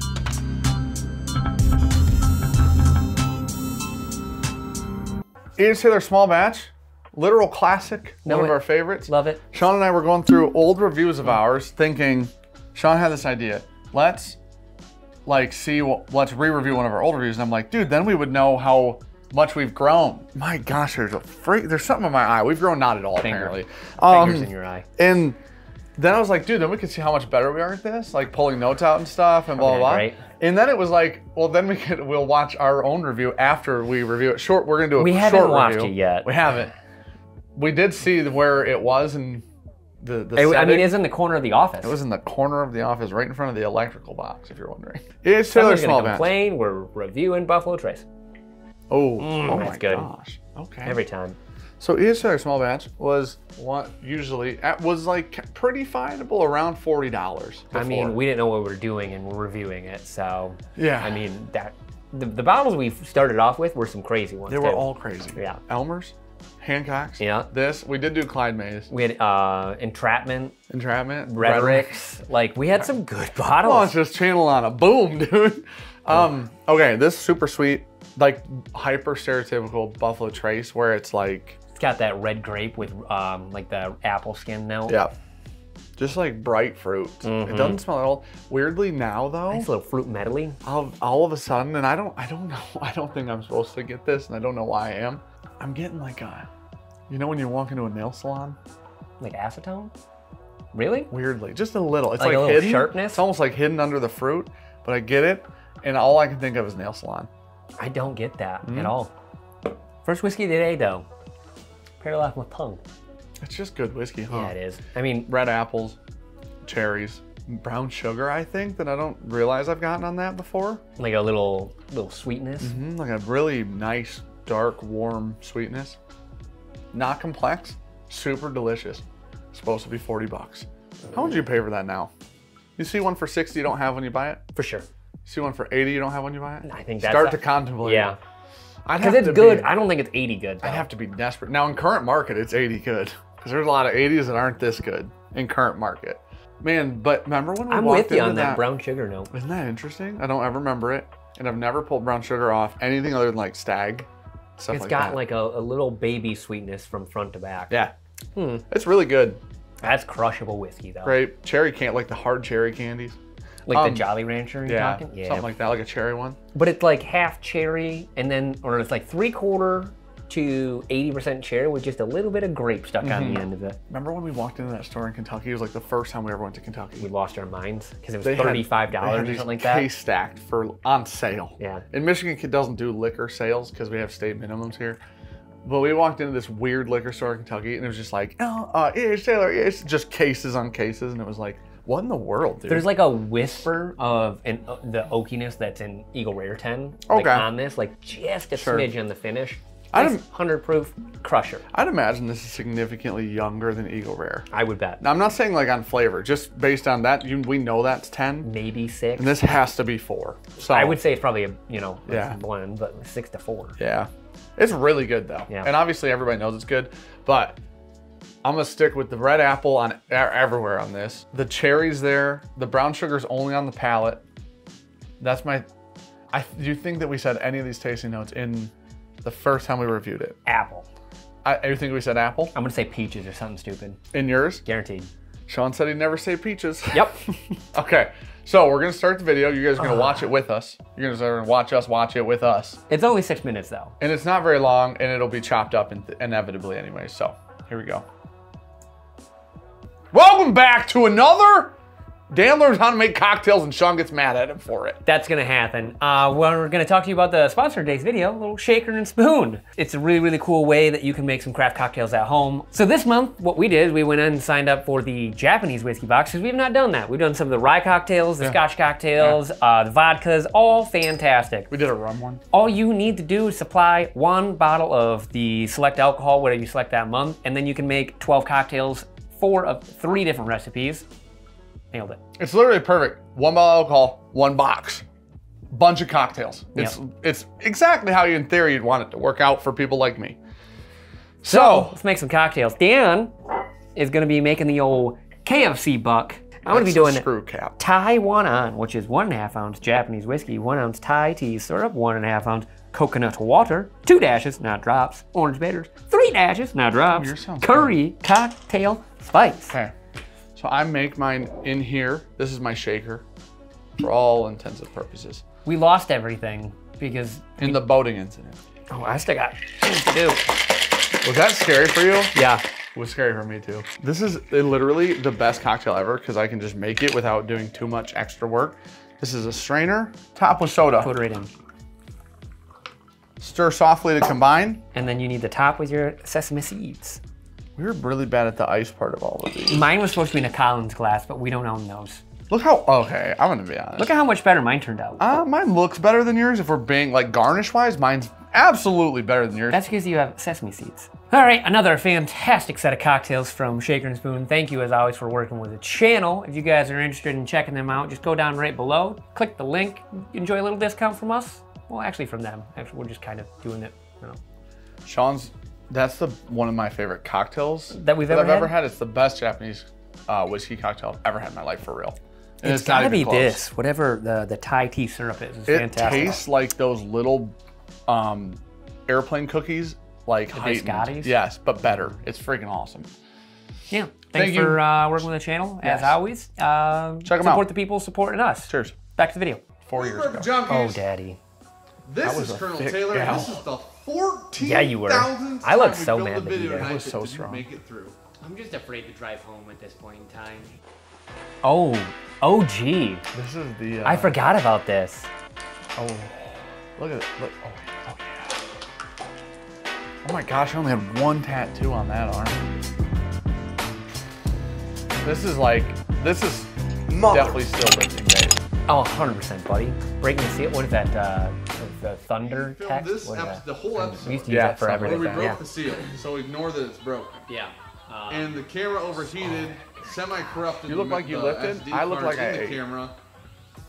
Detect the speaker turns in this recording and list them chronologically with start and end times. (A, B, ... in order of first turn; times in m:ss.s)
0:05.6-0:14.4 A
0:08.2-0:09.4 B
0:15.3-0:25.4 A
0:23.2-0:24.9 B
0:26.0-0:36.7 A
0:29.5-0:30.2 B
0:35.0-0:36.3 B
0:37.6-0:39.4 A
0:40.0-0:41.0 A
0:40.4-0:42.0 B
0:41.8-0:46.4 A
0:45.5-0:48.0 B
0:48.9-0:51.0 A
0:49.2-0:50.1 B
0:50.8-0:51.4 B
0:51.8-0:58.2 A
0:57.7-1:05.6 B
1:00.8-1:01.3 A
1:04.5-1:08.9 A
1:07.2-1:07.5 B
1:08.9-1:10.6 B
1:10.7-1:12.0 A
1:11.3-1:13.9 B
1:13.6-1:21.6 A
1:21.8-1:25.0 B
1:24.9-1:25.1 A
1:26.0-1:29.7 A
1:27.2-1:27.8 B
1:29.5-1:30.6 B
1:30.6-1:36.5 A
1:37.1-1:38.6 A
1:39.2-1:39.9 B
1:40.7-1:41.1 B
1:41.1-1:47.3 A
1:42.2-1:43.2 B
1:47.8-1:49.1 B
1:48.6-1:49.0 A
1:50.0-1:51.1 B
1:52.0-1:52.8 B
1:53.4-1:54.6 A
1:54.3-1:55.3 B
1:55.3-1:56.0 A
1:56.6-2:00.8 A
2:01.0-2:02.8 B
2:02.6-2:06.0 A
2:06.9-2:12.1 A
2:12.8-2:14.4 A
2:14.6-2:14.9 B
2:15.2-2:18.1 A
2:16.6-2:18.2 B
2:18.8-2:19.7 A
2:19.0-2:20.9 B
2:20.6-2:28.7 A
2:27.7-2:29.3 B
2:29.3-2:35.2 A
2:34.7-2:37.8 B
2:38.4-2:38.6 B
2:38.7-2:39.4 A
2:39.8-2:41.2 B
2:41.0-2:43.2 A
2:43.7-2:44.1 A
2:43.7-2:45.5 B
2:44.6-2:46.4 A
2:46.5-2:53.8 B
2:53.0-2:57.1 A
2:57.0-2:59.9 B
2:58.2-3:05.0 A
3:01.6-3:01.8 B
3:05.6-3:12.9 A
3:12.7-3:21.6 B
3:17.1-3:17.5 A
3:18.6-3:18.9 A
3:19.9-3:20.3 A
3:21.7-3:24.5 A
3:24.5-3:25.0 B
3:25.0-3:28.5 A
3:28.4-3:29.6 B
3:29.2-3:31.0 A
3:30.6-3:33.8 B
3:32.1-3:32.4 A
3:33.8-3:37.6 A
3:38.4-3:44.2 A
3:45.2-3:45.7 A
3:46.3-3:48.7 A
3:49.2-3:50.4 A
3:50.5-3:50.9 B
3:51.4-3:52.5 A
3:52.5-3:54.0 B
3:54.1-3:54.6 A
3:54.6-3:55.1 B
3:55.5-4:02.8 A
3:56.9-3:57.2 B
3:59.8-4:00.2 B
4:02.9-4:04.0 B
4:04.0-4:08.1 A
4:10.1-4:11.8 A
4:12.3-4:15.0 A
4:15.0-4:31.7 B
4:31.7-4:32.4 A
4:32.5-4:41.0 B
4:41.9-4:42.2 B
4:42.4-4:45.0 A
4:45.7-4:50.4 A
4:51.4-4:52.0 A
4:51.4-4:53.3 B
4:54.0-4:57.3 B
4:56.7-4:57.8 A
4:57.8-5:09.8 B
5:07.1-5:08.0 A
5:10.6-5:13.2 A
5:14.0-5:15.4 A
5:15.7-5:18.0 B
5:17.6-5:18.6 A
5:18.9-5:20.6 B
5:21.2-5:22.3 A
5:22.3-5:22.6 B
5:22.9-5:31.1 A
5:31.0-5:31.5 B
5:33.4-5:34.8 A
5:34.9-5:37.2 B
5:37.8-5:39.9 A
5:39.6-5:42.2 B
5:42.5-5:44.1 A
5:44.0-5:45.2 B
5:45.2-5:49.8 A
5:49.7-6:04.4 B
6:05.0-6:13.7 A
6:07.9-6:08.8 B
6:12.6-6:16.4 B
6:15.7-6:17.6 A
6:18.1-6:23.1 A
6:20.5-6:21.4 B
6:23.9-6:29.6 B
6:24.3-6:24.9 A
6:25.8-6:26.2 A
6:27.2-6:27.7 A
6:28.7-6:29.0 A
6:29.8-6:30.5 A
6:30.0-6:31.0 C
6:30.7-6:31.4 B
6:32.0-6:38.2 C
6:32.2-6:33.7 A
6:34.6-6:37.0 B
6:36.7-6:37.7 A
6:38.4-6:40.8 D
6:41.6-6:43.2 B
6:43.3-6:44.4 A
6:44.0-6:45.3 B
6:46.0-6:48.6 A
6:50.2-6:52.6 A
6:55.2-6:58.6 A
6:57.1-6:57.6 C
6:58.9-7:05.6 B
7:02.4-7:07.5 C
7:04.5-7:05.6 A
7:07.5-7:08.4 D
7:08.3-7:13.2 C
7:09.4-7:10.4 B
7:10.8-7:12.8 A